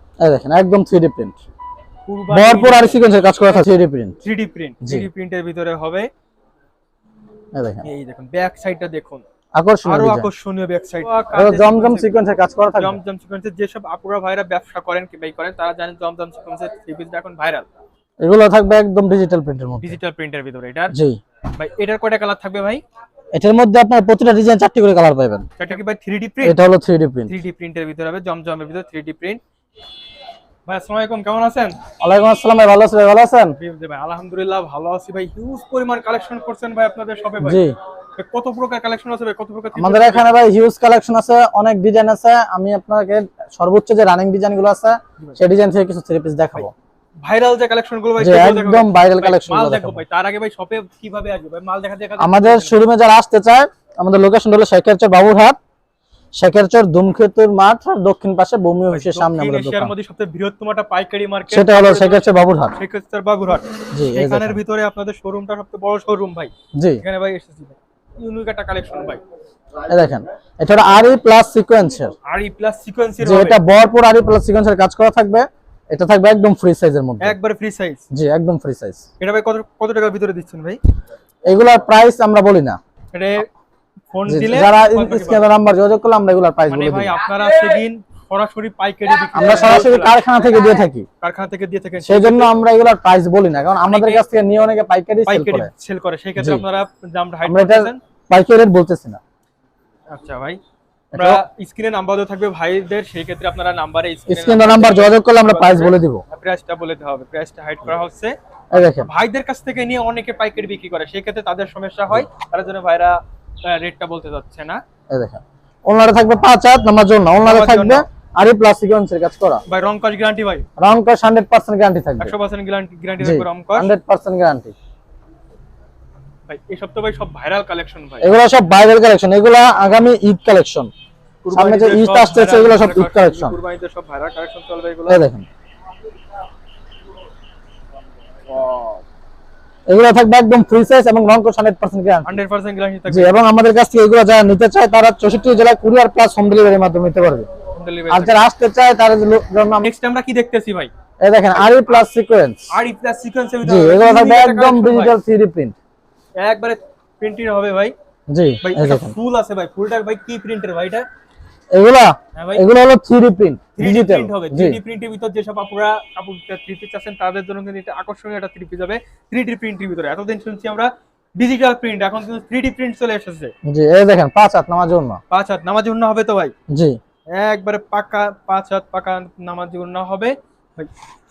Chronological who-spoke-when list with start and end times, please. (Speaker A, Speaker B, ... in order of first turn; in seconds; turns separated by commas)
Speaker A: 0.2-1.4, Speaker B: 2.1-3.7, Speaker A: 2.3-4.2, Speaker B: 4.2-6.1, Speaker A: 7.5-7.9, Speaker B: 7.8-9.2, Speaker A: 9.5-10.3, Speaker B: 9.8-12.2, Speaker A: 11.3-13.0, Speaker B: 12.8-17.8, Speaker A: 18.2-20.0, Speaker B: 19.8-20.9, Speaker A: 20.9-21.2, Speaker B: 21.6-22.8, Speaker A: 23.3-25.4, Speaker B: 25.6-26.6, Speaker A: 26.4-27.4, Speaker B: 27.3-29.4, Speaker B: 30.6-31.8, Speaker A: 32.0-33.5, Speaker B: 33.6-37.6, Speaker A: 37.4-37.7, Speaker B: 38.1-40.2, Speaker A: 39.7-46.7, Speaker B: 47.2-52.8, Speaker A: 48.2-50.0, Speaker A: 52.2-55.6, Speaker A: 56.3-59.9, Speaker B: 58.9-69.2, Speaker A: 61.5-62.8, Speaker A: 63.9-64.6, Speaker A: 66.8-67.0, Speaker A: 69.9-72.1, Speaker B: 72.3-73.6, Speaker A: 73.2-77.4, Speaker B: 77.2-78.0, Speaker A: 78.1-79.0, Speaker B: 79.2-80.8, Speaker A: 81.5-82.8, Speaker B: 83.1-83.5, Speaker B: 84.1-85.5, Speaker A: 84.3-87.2, Speaker B: 86.7-90.2, Speaker A: 89.3-91.1, Speaker B: 91.2-92.5, Speaker A: 92.0-95.7, Speaker B: 93.8-94.2, Speaker B: 95.3-98.0, Speaker A: 96.4-96.6, Speaker A: 97.4-99.2, Speaker B: 100.1-100.6, Speaker A: 101.1-101.4, Speaker B: 101.1-114.8, Speaker A: 104.3-106.2, Speaker A: 108.7-109.1, Speaker A: 115.1-119.6, Speaker B: 117.4-118.1, Speaker B: 119.7-120.6, Speaker A: 120.8-122.3, Speaker B: 122.2-123.9, Speaker A: 123.2-124.7, Speaker B: 126.5-128.3, Speaker A: 128.2-130.9, Speaker B: 131.4-135.2, Speaker A: 131.5-133.6, Speaker A: 135.1-135.4, Speaker B: 138.5-139.0, Speaker A: 139.9-142.4, Speaker B: 142.2-143.5, Speaker A: 143.1-147.5, Speaker B: 147.7-148.4, Speaker A: 148.1-149.9, Speaker B: 149.8-150.9, Speaker A: 151.2-152.7, Speaker B: 151.5-152.0, Speaker B: 152.7-155.2, Speaker A: 153.6-155.8, Speaker B: 156.4-157.9, Speaker A: 158.3-159.2, Speaker B: 158.6-161.1, Speaker A: 161.7-164.8, Speaker B: 162.3-162.7, Speaker B: 163.8-173.5, Speaker A: 173.6-175.2, Speaker B: 175.3-176.5, Speaker A: 176.7-177.0, Speaker B: 177.3-180.9